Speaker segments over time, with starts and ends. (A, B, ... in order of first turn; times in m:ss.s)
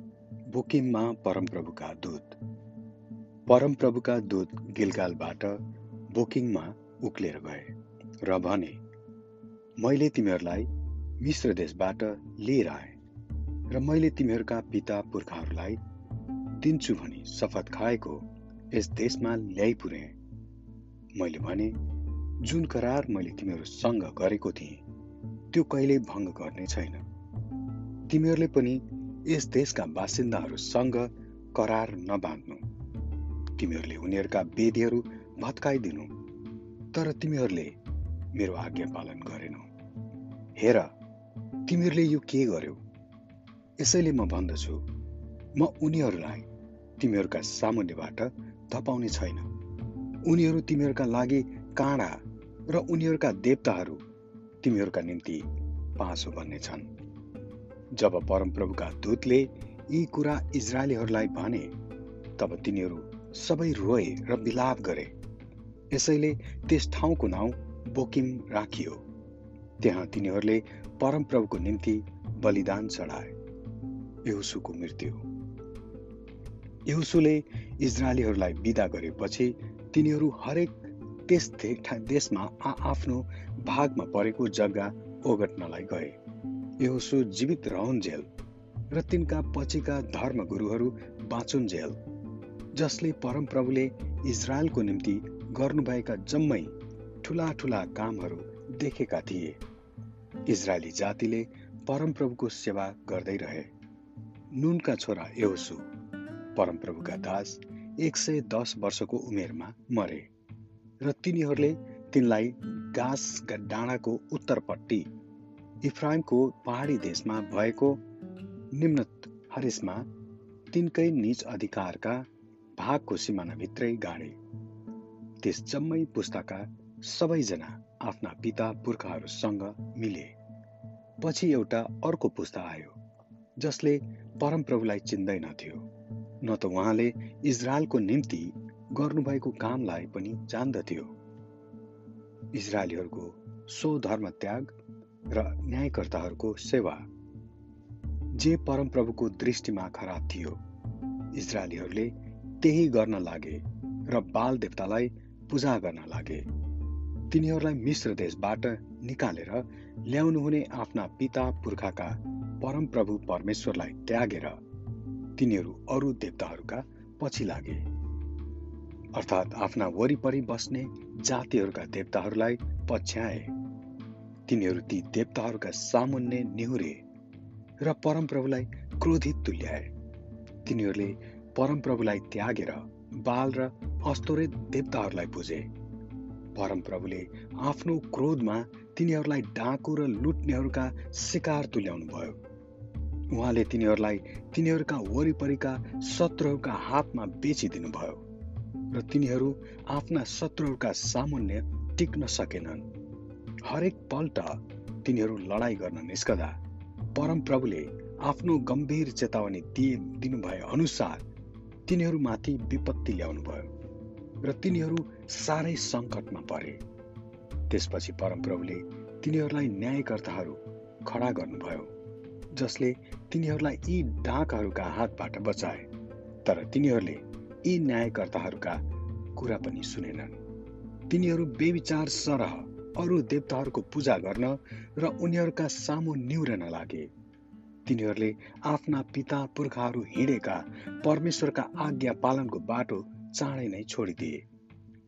0:00.5-0:02.4 A
0:03.5-0:08.8 A
0:09.8-0:13.0 A
0:13.7-0:15.8 A
0:16.5-0:20.2 A
0:21.1-0:21.8 A
0:22.4-0:24.8 A
0:25.5-0:27.0 A
0:28.1-0:32.6 A
0:33.6-0:36.1 A
0:36.9-0:37.8 A
0:38.3-0:39.7 A
0:40.6-0:40.9 A
0:41.6-0:42.8 A
0:43.8-0:44.8 A
0:45.5-0:49.5 A
0:50.2-0:54.0 A
0:54.6-0:56.9 A
0:57.9-1:01.7 A
1:02.4-1:05.1 A
1:05.9-1:09.0 A
1:09.8-1:13.3 A
1:14.2-1:15.2 A
1:16.8-1:26.2 A
1:26.8-1:28.3 A
1:28.9-1:32.0 A
1:32.7-1:39.6 A
1:40.4-1:43.7 A
1:44.5-1:45.9 A
1:46.5-1:50.3 A
1:51.0-1:55.1 A
1:55.8-1:58.0 A
1:58.7-2:00.1 A
2:00.7-2:04.4 A
2:05.4-2:10.3 A
2:11.2-2:13.0 A
2:13.6-2:15.9 A
2:16.4-2:21.1 A
2:22.5-2:24.8 A
2:25.3-2:27.0 A
2:28.3-2:30.6 A
2:31.3-2:36.5 A
2:37.3-2:44.6 A
2:45.4-2:47.8 A
2:49.1-2:53.5 A
2:54.5-2:57.0 A
2:57.8-2:59.9 A
3:00.6-3:05.7 A
3:06.5-3:12.4 A
3:13.3-3:18.2 A
3:18.9-3:22.9 A
3:23.6-3:26.6 A
3:27.1-3:31.2 A
3:31.8-3:33.7 A
3:34.4-3:36.8 A
3:37.7-3:41.9 A
3:42.5-3:45.9 A
3:46.4-3:48.8 A
3:49.3-3:50.4 A
3:51.1-3:57.1 A
3:57.8-4:04.4 A